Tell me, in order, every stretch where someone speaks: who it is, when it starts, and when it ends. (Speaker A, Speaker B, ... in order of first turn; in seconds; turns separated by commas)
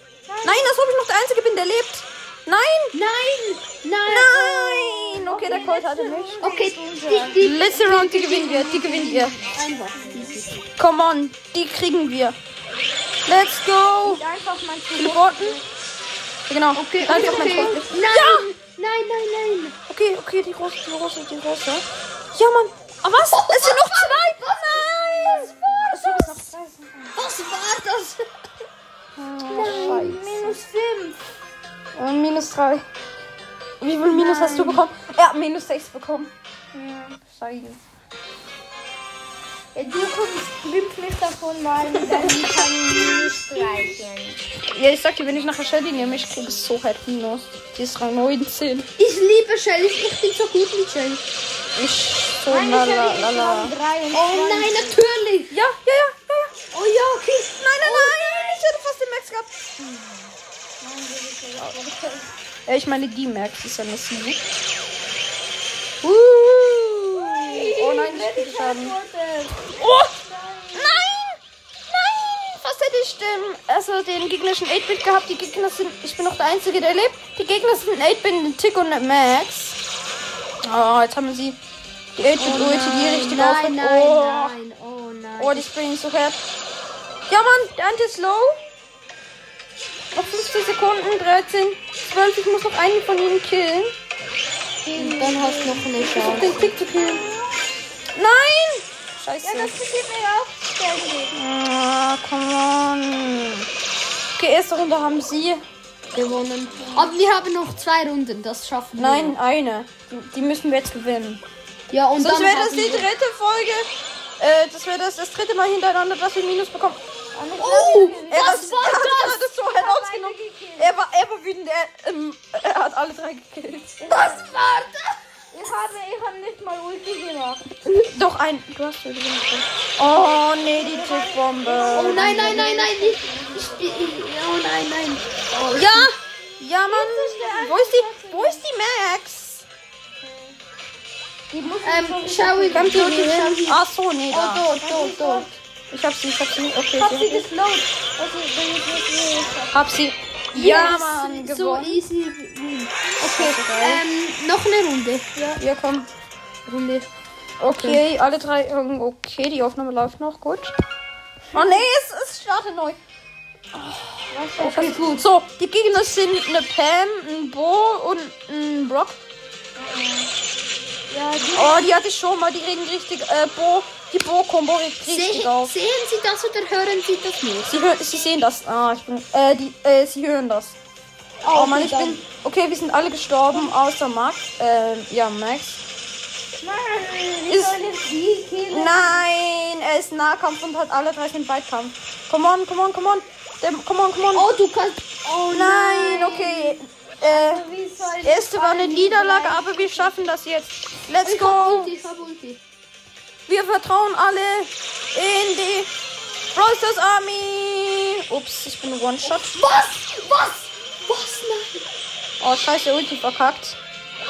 Speaker A: 0.3-0.8, Speaker B: 0.4-3.0, Speaker C: 2.9-5.0, Speaker B: 4.1-6.5, Speaker A: 5.1-7.4, Speaker C: 6.4-10.5, Speaker B: 7.4-9.4, Speaker A: 9.9-10.5, Speaker B: 10.8-12.4, Speaker B: 13.3-14.2, Speaker A: 14.0-15.7, Speaker B: 15.0-15.6, Speaker B: 16.5-18.5, Speaker C: 16.8-19.8, Speaker B: 19.9-26.9, Speaker C: 23.3-26.4, Speaker C: 27.1-28.2, Speaker B: 29.2-30.6, Speaker A: 29.5-31.2, Speaker C: 29.6-30.1, Speaker B: 31.9-32.8, Speaker B: 33.8-36.3, Speaker A: 34.1-34.9, Speaker A: 36.7-37.3, Speaker B: 37.4-37.8, Speaker A: 39.7-44.4, Speaker B: 41.9-42.7, Speaker B: 44.7-48.9, Speaker C: 49.0-51.2, Speaker B: 51.8-53.8, Speaker A: 52.5-55.0, Speaker C: 54.1-55.5, Speaker B: 55.5-56.5, Speaker C: 56.7-58.4, Speaker B: 57.6-59.5, Speaker A: 60.8-62.3, Speaker B: 62.7-64.4, Speaker A: 67.2-71.1, Speaker B: 67.7-69.0, Speaker B: 69.8-70.2, Speaker B: 70.8-79.8, Speaker B: 80.6-81.6, Speaker B: 82.2-84.6, Speaker C: 82.4-85.7, Speaker B: 85.4-86.4, Speaker B: 87.3-88.5, Speaker B: 90.1-94.0, Speaker A: 94.8-97.3, Speaker C: 95.0-96.7, Speaker B: 96.1-97.3, Speaker B: 98.2-99.8, Speaker A: 99.4-101.4, Speaker B: 101.3-103.7, Speaker B: 104.4-105.6, Speaker C: 106.1-109.4, Speaker B: 109.0-111.4, Speaker C: 111.9-113.1, Speaker B: 112.2-113.9, Speaker B: 114.4-117.0, Speaker A: 117.4-120.9, Speaker C: 117.6-119.5, Speaker B: 118.3-124.0, Speaker A: 124.0-124.5, Speaker C: 124.1-125.2, Speaker A: 125.5-127.7, Speaker B: 127.8-132.6, Speaker A: 130.3-134.2, Speaker C: 131.9-136.1, Speaker B: 135.7-139.7, Speaker A: 136.9-138.6, Speaker A: 140.2-140.6, Speaker A: 141.5-143.3, Speaker C: 141.8-145.5, Speaker B: 142.7-144.7, Speaker A: 144.7-145.6, Speaker B: 145.9-147.5, Speaker A: 147.0-149.9, Speaker B: 149.7-152.0, Speaker C: 150.5-155.3, Speaker B: 153.2-154.0, Speaker A: 155.4-155.6, Speaker B: 155.6-156.1, Speaker C: 156.7-157.1, Speaker B: 157.6-160.7, Speaker B: 161.5-163.0, Speaker A: 161.5-161.8, Speaker B: 163.7-169.2, Speaker A: 164.3-165.2, Speaker C: 164.6-165.2, Speaker A: 169.8-170.3, Speaker A: 171.1-171.9, Speaker B: 171.5-175.8, Speaker C: 175.1-177.7, Speaker B: 177.7-180.8, Speaker C: 181.4-182.2, Speaker B: 181.5-185.8, Speaker A: 186.5-189.2, Speaker B: 187.5-187.8, Speaker B: 188.7-194.5, Speaker C: 194.3-196.4, Speaker B: 195.5-197.7, Speaker A: 196.0-200.3, Speaker B: 198.2-201.9, Speaker C: 201.2-202.6, Speaker B: 203.5-205.9, Speaker B: 206.6-209.6, Speaker C: 209.3-211.9, Speaker B: 212.4-213.8